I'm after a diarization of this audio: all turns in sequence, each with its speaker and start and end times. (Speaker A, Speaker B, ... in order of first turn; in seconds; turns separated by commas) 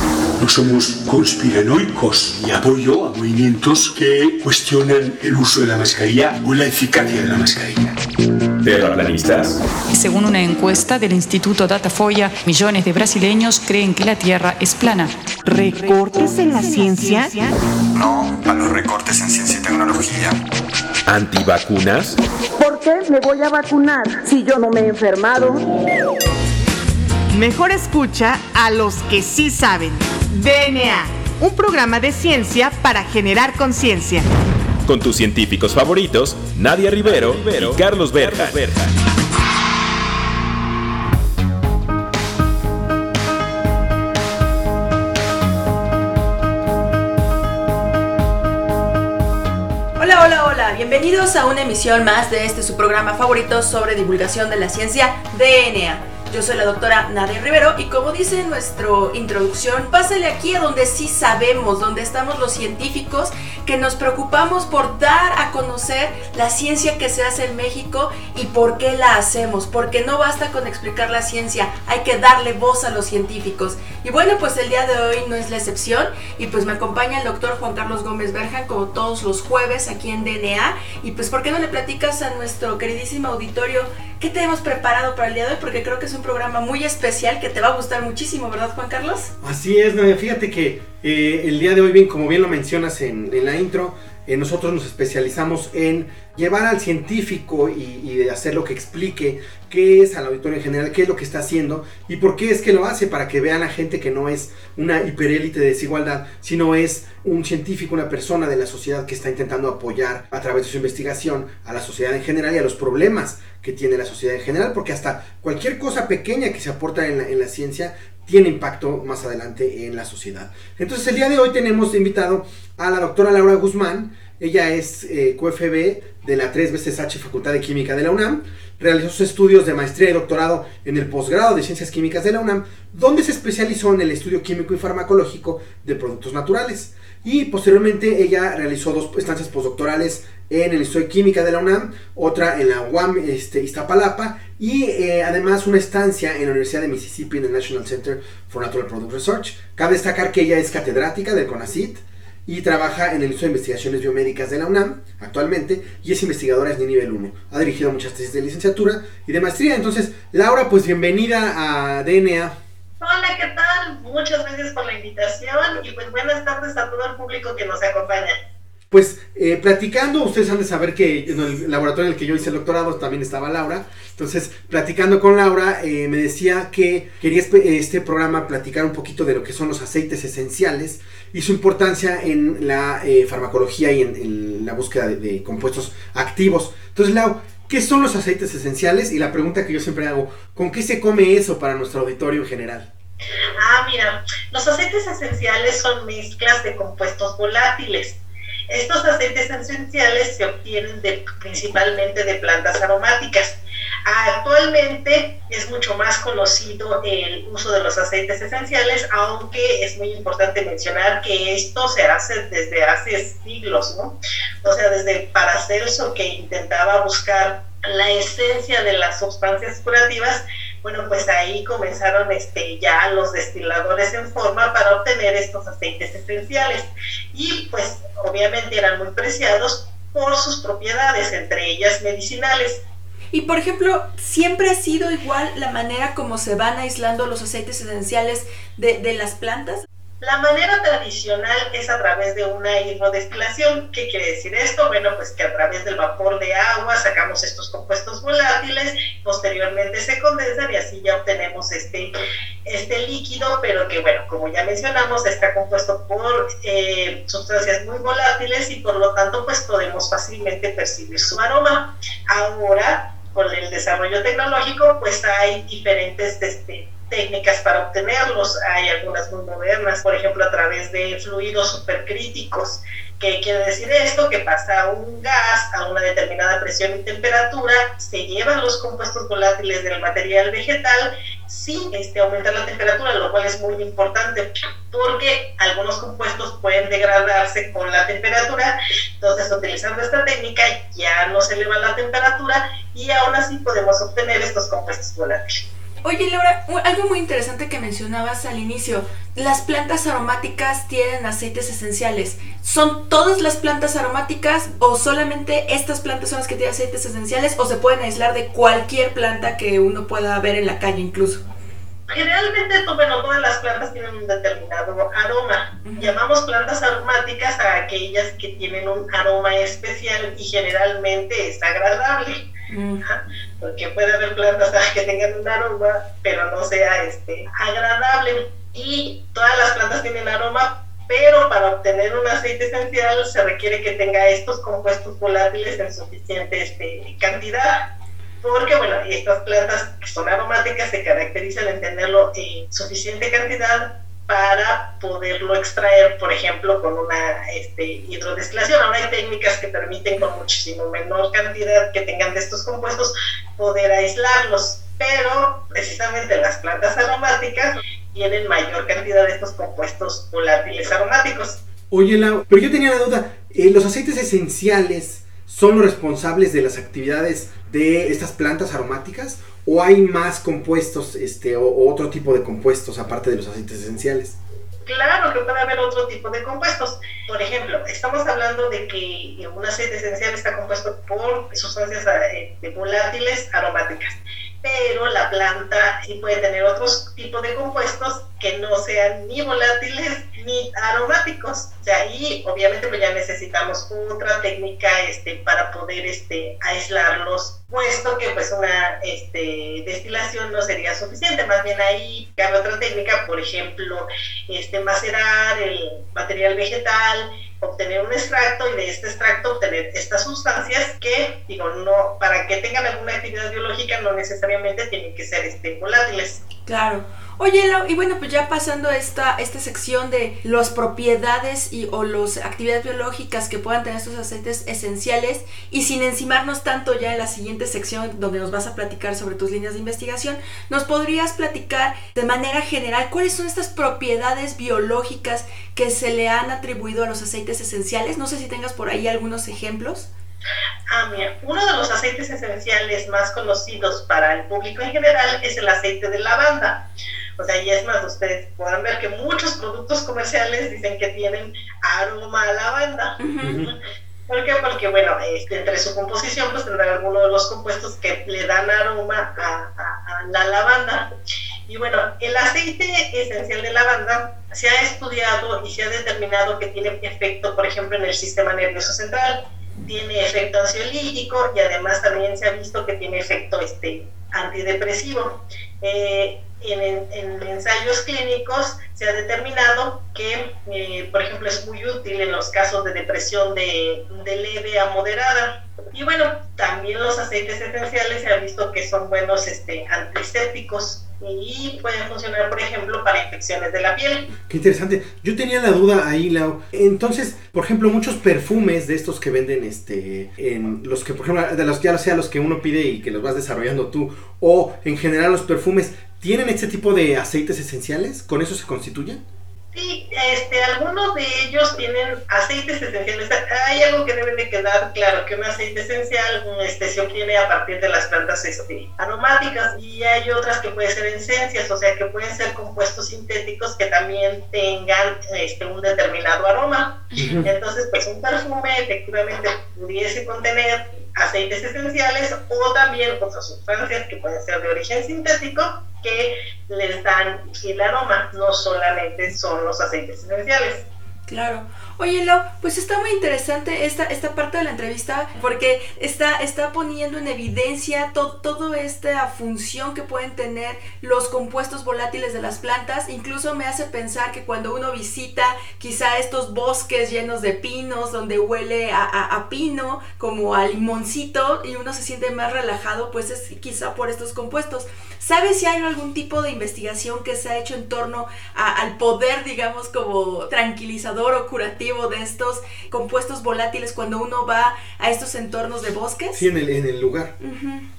Speaker A: 0.4-7.9, Speaker B: 8.6-9.6, Speaker C: 9.9-15.2, Speaker D: 15.5-17.6, Speaker E: 17.9-20.4, Speaker B: 21.1-22.2, Speaker F: 22.6-25.6, Speaker D: 27.3-34.3, Speaker B: 34.9-38.9, Speaker G: 50.0-89.3, Speaker H: 89.4-162.6, Speaker I: 163.0-168.4, Speaker H: 168.9-192.9, Speaker I: 193.6-198.2, Speaker I: 198.7-232.8, Speaker G: 233.3-239.8, Speaker I: 240.2-252.1, Speaker I: 252.7-295.6, Speaker G: 296.0-311.4, Speaker I: 312.1-322.5, Speaker G: 315.9-316.1, Speaker G: 322.7-323.0, Speaker I: 323.1-337.9, Speaker I: 338.4-361.6, Speaker H: 361.9-374.4, Speaker I: 374.9-416.4, Speaker G: 416.7-440.1, Speaker I: 440.9-446.8, Speaker I: 447.4-453.8, Speaker G: 453.2-453.6, Speaker H: 453.4-453.7, Speaker I: 454.3-461.1, Speaker I: 461.7-494.3, Speaker H: 494.5-509.2, Speaker I: 509.7-540.9, Speaker G: 527.1-527.4, Speaker H: 527.2-527.5, Speaker G: 541.3-576.5, Speaker H: 576.3-577.3, Speaker G: 577.4-577.9